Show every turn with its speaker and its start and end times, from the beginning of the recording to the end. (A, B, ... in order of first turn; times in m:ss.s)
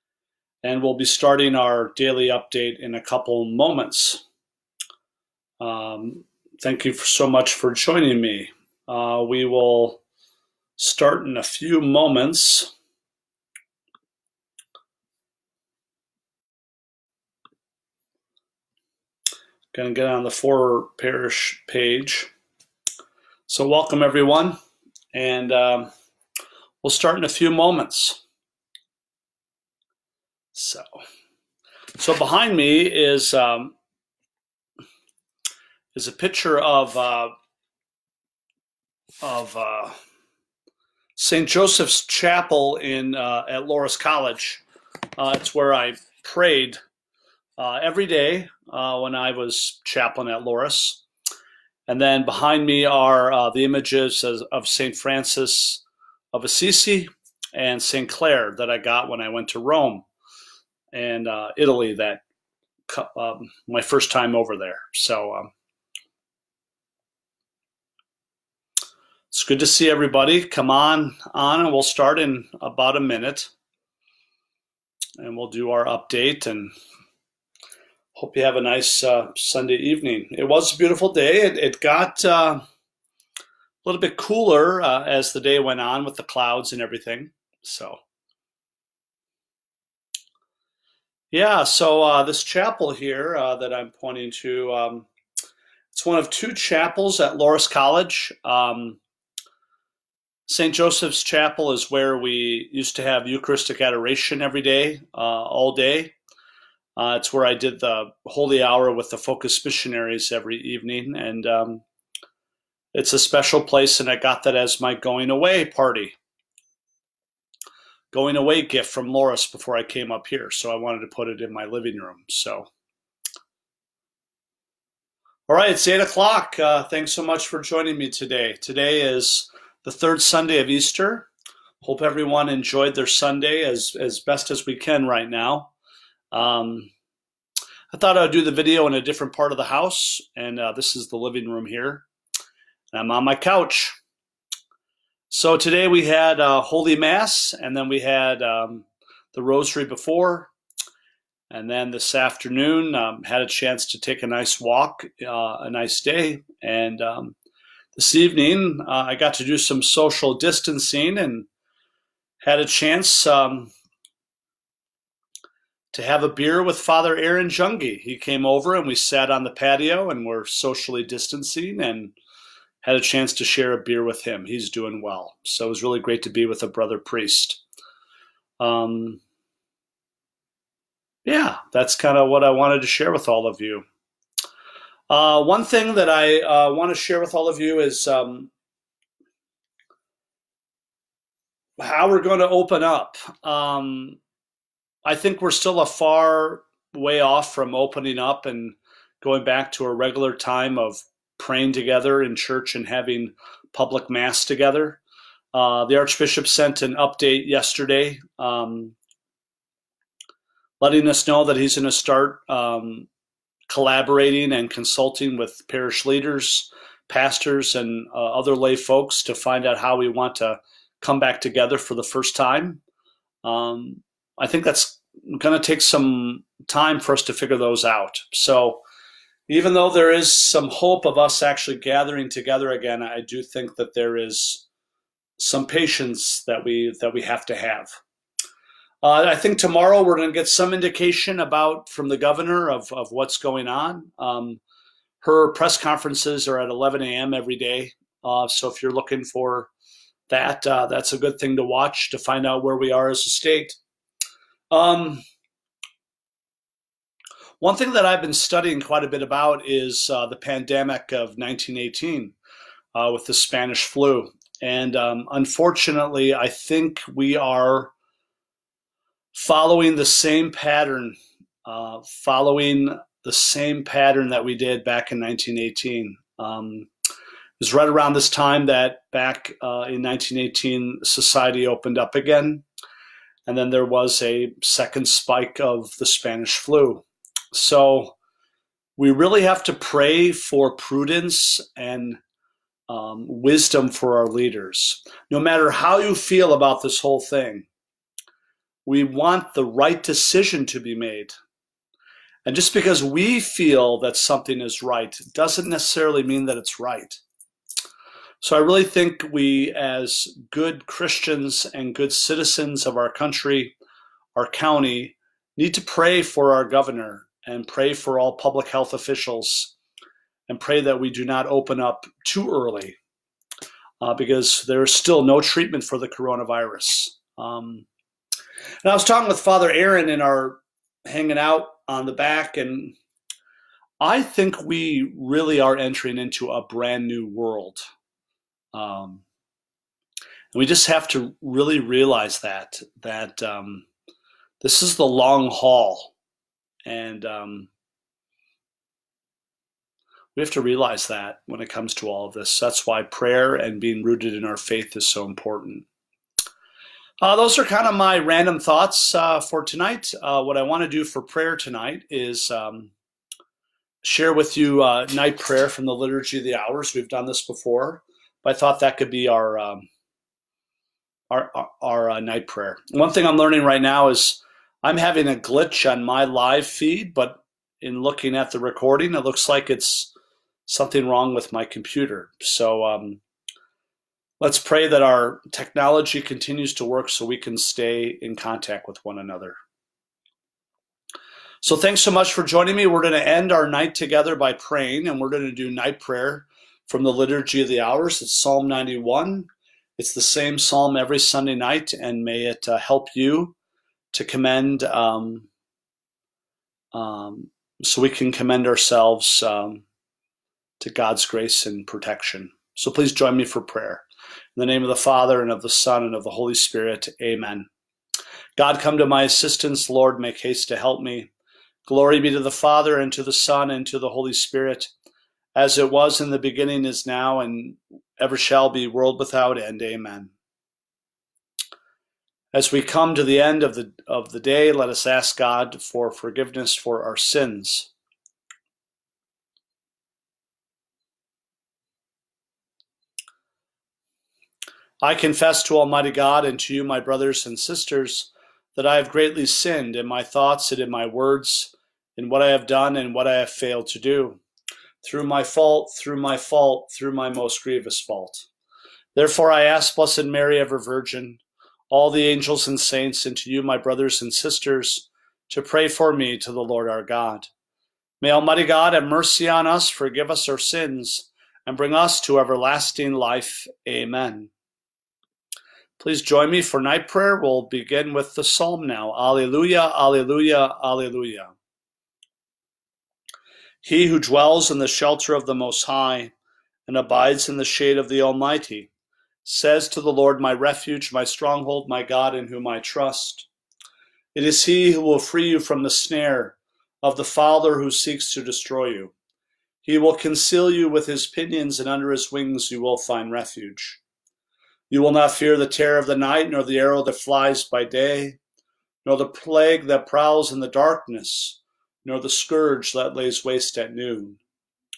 0:00.6-0:04.2 A
0:05.6-0:10.0 A
0:10.8-0:12.7 A
0:19.7-0:22.3 A
0:23.5-0:24.6 A
0:25.1-0:25.9 A
0:26.8-0:28.2 A
0:30.5-0:30.9 A
0:32.0-0:33.8 A
0:35.9-0:37.3 A
0:39.2-0:40.0 A
0:41.2-0:44.6 A
0:45.2-0:46.8 A
0:47.6-0:51.0 A
0:51.9-1:00.0 A
1:00.9-1:02.2 A
1:02.9-1:05.5 A
1:09.3-1:13.5 A
1:15.2-1:16.7 A
1:18.1-1:22.6 A
1:23.8-1:28.0 A
1:31.3-1:35.1 A
1:35.9-1:39.0 A
1:40.5-1:46.1 A
1:47.0-1:51.8 A
1:52.9-1:56.2 A
1:58.1-2:02.7 A
2:05.5-2:11.3 A
2:11.8-2:15.7 A
2:16.3-2:16.9 A
2:17.9-2:22.0 A
2:22.9-2:24.0 A
2:25.3-2:30.5 A
2:31.5-2:37.4 A
2:37.9-2:41.5 A
2:42.4-2:43.7 A
2:45.9-2:52.1 A
2:52.8-2:57.6 A
2:58.6-2:59.2 A
3:01.2-3:03.8 A
3:05.1-3:08.5 A
3:11.8-3:14.2 A
3:15.0-3:25.0 A
3:25.5-3:29.0 A
3:30.8-3:33.1 A
3:33.7-3:42.8 A
3:43.4-3:48.8 A
3:49.5-3:54.6 A
3:55.4-3:58.0 A
3:59.0-4:04.6 A
4:05.2-4:09.7 A
4:10.3-4:13.8 A
4:14.7-4:15.2 A
4:17.6-4:22.3 A
4:22.9-4:27.9 A
4:29.3-4:36.9 A
4:37.6-4:42.6 A
4:43.4-4:48.1 A
4:49.0-4:52.2 A
4:52.9-4:57.7 A
4:58.8-5:01.3 A
5:02.4-5:07.2 A
5:08.4-5:13.7 A
5:14.4-5:19.7 A
5:20.5-5:23.0 A
5:24.0-5:27.9 A
5:28.8-5:33.0 A
5:34.0-5:37.8 A
5:38.7-5:39.2 A
5:40.5-5:43.9 A
5:44.6-5:46.1 A
5:46.8-5:47.7 A
5:50.3-5:55.8 A
5:57.2-6:02.9 A
6:04.0-6:09.9 A
6:11.3-6:20.1 A
6:20.6-6:23.2 A
6:24.4-6:29.6 A
6:31.6-6:43.5 A
6:44.1-6:45.5 A
6:46.9-6:49.8 A
6:50.8-6:54.0 A
6:54.6-6:57.7 A
6:58.6-7:01.3 A
7:01.8-7:04.9 A
7:05.5-7:10.3 A
7:12.5-7:17.9 A
7:25.0-7:34.4 A
7:35.0-7:38.5 A
7:39.1-7:47.5 A
7:48.2-7:54.5 A
7:56.0-8:01.5 A
8:03.8-8:06.3 A
8:06.9-8:08.9 A
8:09.4-8:13.5 A
8:14.3-8:19.1 A
8:19.8-8:24.0 A
8:24.9-8:28.4 A
8:29.0-8:34.4 A